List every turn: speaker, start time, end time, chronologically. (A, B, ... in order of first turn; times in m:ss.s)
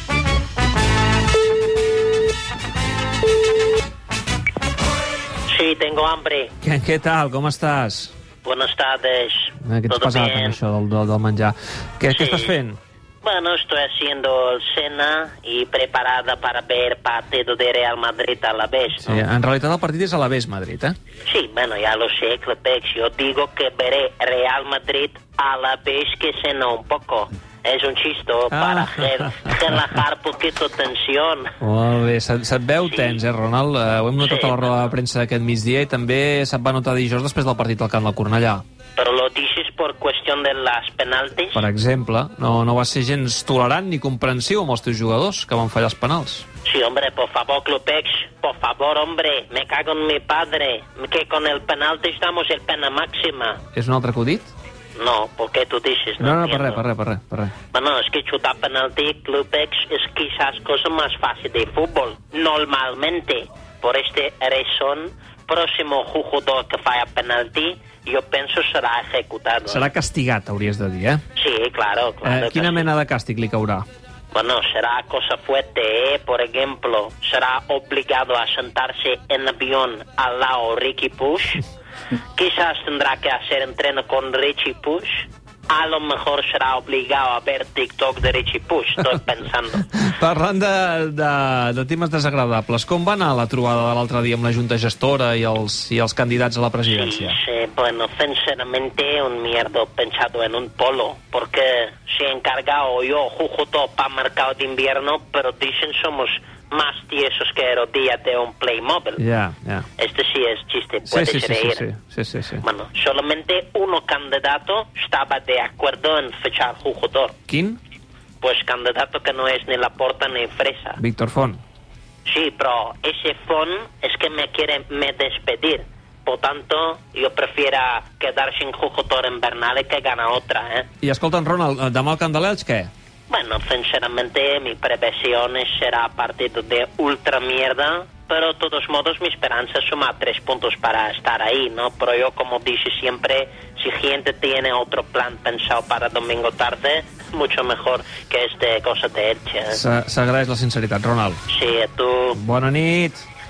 0:05.5-0:06.5 A
0:06.6-0:08.1 B
0:08.4-0:10.6 A
0:09.6-0:12.8 B
0:12.1-0:12.6 A
0:13.2-0:19.2 A
0:19.0-0:21.0 B
0:21.3-0:31.5 A
0:28.5-0:29.8 B
0:31.6-0:38.6 B
0:32.8-0:33.2 A
0:34.2-0:34.9 A
0:39.0-0:41.6 A
0:41.5-0:46.4 B
0:46.6-0:53.6 A
0:53.7-0:54.5 B
0:55.0-0:56.8 A
0:56.2-0:57.5 B
0:57.7-1:09.9 A
1:09.7-1:11.2 B
1:11.4-1:12.9 A
1:12.2-1:13.8 B
1:14.3-1:21.6 A
1:22.4-1:29.8 A
1:29.9-1:37.4 B
1:36.8-1:49.2 A
1:49.2-1:49.9 B
1:50.0-1:51.8 A
1:51.1-1:52.6 B
1:52.6-1:57.4 A
1:57.5-1:57.8 B
1:58.4-2:01.0 A
2:01.0-2:01.6 B
2:02.2-2:10.9 A
2:11.0-2:12.9 B
2:13.3-2:29.8 A
2:29.7-2:31.4 B
2:31.5-2:32.4 A
2:32.3-2:33.2 B